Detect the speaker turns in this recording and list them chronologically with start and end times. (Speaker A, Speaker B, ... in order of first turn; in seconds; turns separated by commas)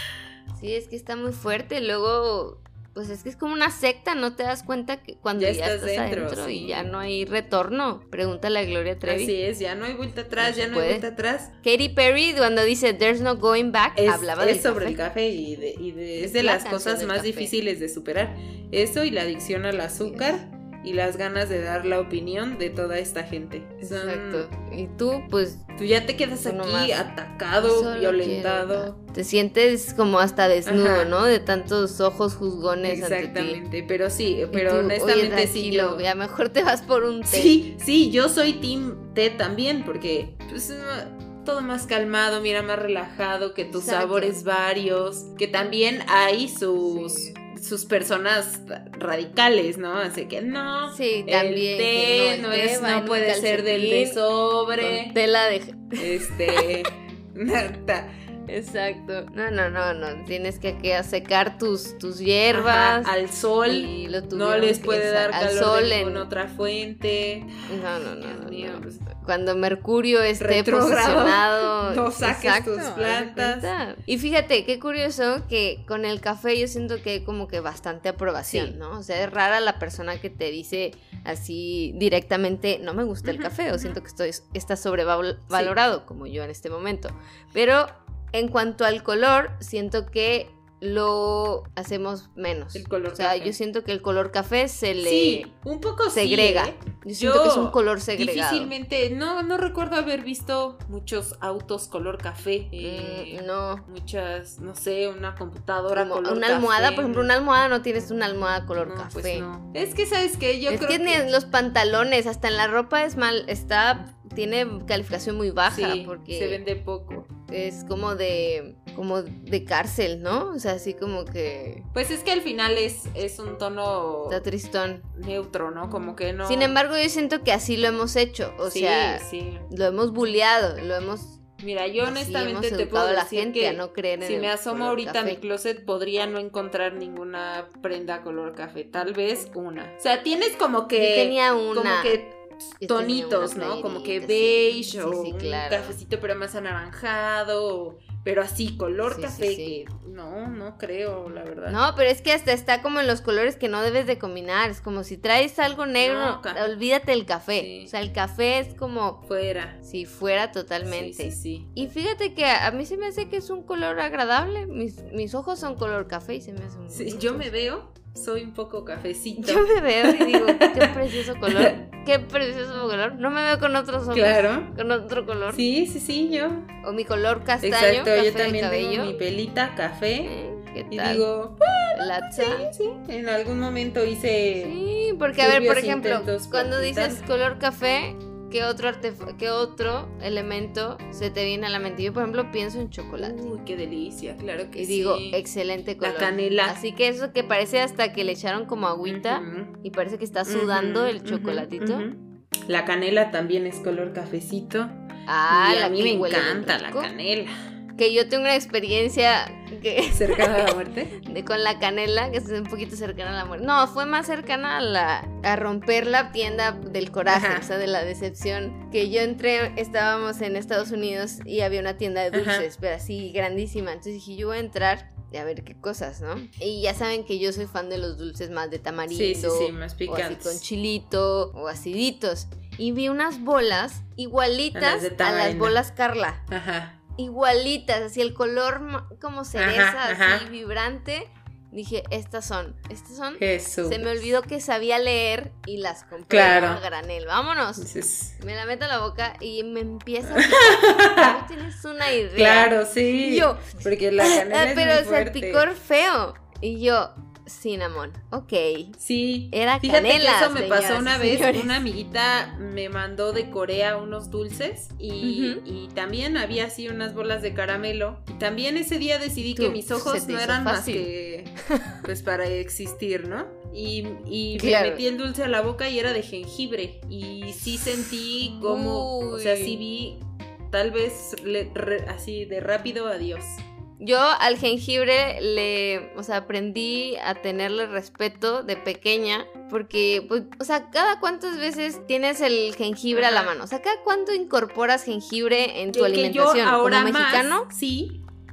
Speaker A: 0.5-9.3, Speaker B: 5.3-6.9, Speaker B: 9.0-11.5, Speaker A: 10.4-11.1, Speaker A: 11.6-15.0, Speaker B: 13.9-24.5, Speaker A: 16.2-17.5, Speaker A: 20.0-20.4, Speaker A: 23.8-25.6, Speaker B: 25.8-29.0, Speaker A: 26.4-27.0, Speaker A: 27.6-33.6, Speaker B: 30.6-31.1, Speaker B: 32.8-36.0, Speaker A: 34.5-37.6, Speaker B: 37.3-55.1, Speaker A: 43.7-44.4, Speaker A: 46.8-47.3, Speaker A: 50.9-54.2, Speaker A: 54.7-56.7, Speaker B: 56.0-58.1, Speaker A: 58.5-63.1, Speaker B: 62.5-69.1, Speaker A: 63.7-66.3, Speaker A: 67.7-95.5, Speaker B: 70.4-73.7, Speaker B: 78.4-78.8, Speaker B: 83.2-84.0, Speaker B: 85.5-85.8, Speaker B: 92.7-93.5, Speaker B: 95.0-107.3, Speaker A: 96.1-98.7, Speaker A: 102.8-103.8, Speaker A: 105.9-109.5, Speaker B: 108.8-111.2, Speaker A: 110.7-116.6, Speaker B: 115.7-117.3, Speaker A: 117.5-121.9, Speaker B: 121.9-124.5, Speaker A: 124.3-125.0, Speaker B: 125.1-126.8, Speaker A: 126.4-131.4, Speaker B: 128.7-129.7, Speaker B: 131.6-151.8, Speaker A: 132.0-135.4, Speaker A: 140.9-142.2, Speaker A: 142.8-146.0, Speaker A: 149.0-149.8, Speaker A: 151.7-159.2, Speaker B: 156.0-156.7, Speaker B: 157.6-157.9, Speaker B: 159.3-159.8, Speaker A: 159.8-167.5, Speaker B: 160.8-161.7, Speaker B: 166.9-171.8, Speaker A: 169.4-175.6, Speaker B: 174.1-174.8, Speaker B: 175.5-176.7, Speaker A: 176.8-179.2, Speaker B: 177.6-180.3, Speaker A: 180.2-181.2, Speaker B: 180.9-184.8, Speaker A: 181.9-182.7, Speaker A: 184.6-193.5, Speaker B: 185.4-187.2, Speaker B: 193.2-195.4, Speaker A: 194.7-202.1, Speaker B: 196.0-196.8, Speaker B: 199.0-199.8, Speaker B: 200.4-207.5, Speaker A: 205.3-207.1, Speaker A: 208.0-236.4, Speaker B: 210.1-211.1, Speaker B: 217.3-217.7, Speaker B: 222.3-222.7, Speaker B: 229.1-230.6, Speaker B: 234.7-235.8, Speaker B: 236.5-237.0, Speaker A: 237.2-259.0, Speaker B: 239.5-240.5, Speaker B: 243.4-244.3, Speaker B: 246.3-246.8, Speaker B: 247.8-248.3, Speaker B: 250.2-251.4, Speaker B: 252.3-255.7, Speaker B: 259.0-283.6, Speaker A: 259.5-261.8, Speaker A: 265.2-265.6, Speaker A: 269.5-271.1, Speaker A: 274.5-275.0, Speaker A: 278.6-279.8, Speaker A: 284.0-297.7, Speaker B: 293.1-293.5, Speaker B: 295.9-298.2